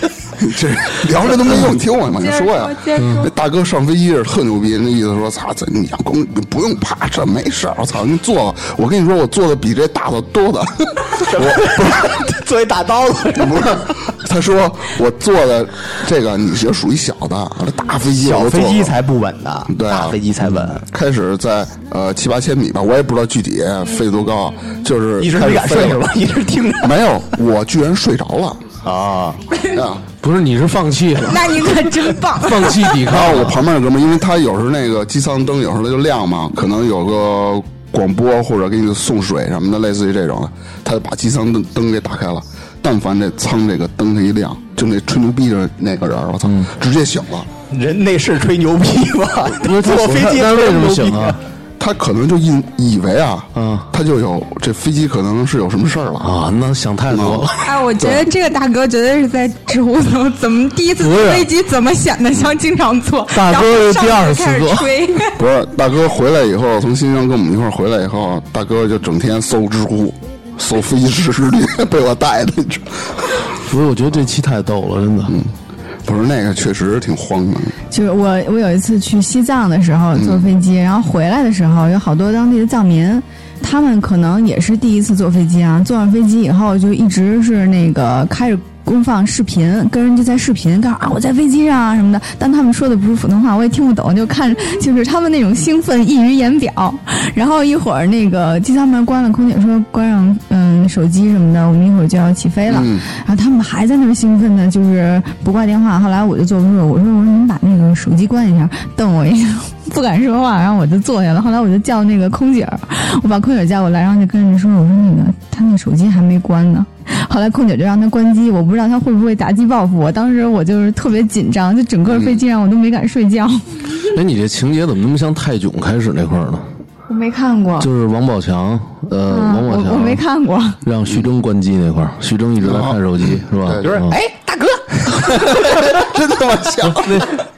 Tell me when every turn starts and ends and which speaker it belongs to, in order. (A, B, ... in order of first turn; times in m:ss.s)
0:00.4-0:11.9 A
0:02.1-0:03.3 B
0:03.0-0:03.3 C
0:11.2-0:13.8 D
0:13.3-0:19.0 A
0:18.1-0:20.8 D
0:19.7-0:20.2 A
0:20.8-0:26.0 A
0:25.2-0:27.1 D
0:26.8-0:28.6 A
0:28.8-0:29.4 D
0:29.7-0:30.0 A
0:30.2-0:31.7 C
0:31.3-0:33.0 B
0:32.4-0:33.6 C
0:33.0-0:47.5 A
0:47.7-0:51.4 D
0:49.6-0:51.4 C
0:51.8-0:56.3 A
0:53.5-0:53.9 C
0:56.2-0:57.7 C
0:57.1-0:58.2 A
0:57.6-1:05.4 B
1:01.0-1:01.5 C
1:03.3-1:05.0 C
1:05.3-1:13.4 A
1:13.6-1:15.4 C
1:15.3-1:15.5 A
1:16.0-1:17.8 A
1:17.9-2:03.8 E
1:20.2-1:20.5 A
1:42.7-1:43.0 A
2:02.1-2:02.4 A
2:04.1-2:06.7 C
2:07.1-2:07.9 E
2:07.8-2:10.2 C
2:09.3-2:10.8 E
2:10.8-2:14.2 C
2:12.6-2:13.9 A
2:13.8-2:15.9 D
2:15.4-2:17.3 A
2:16.8-2:17.4 C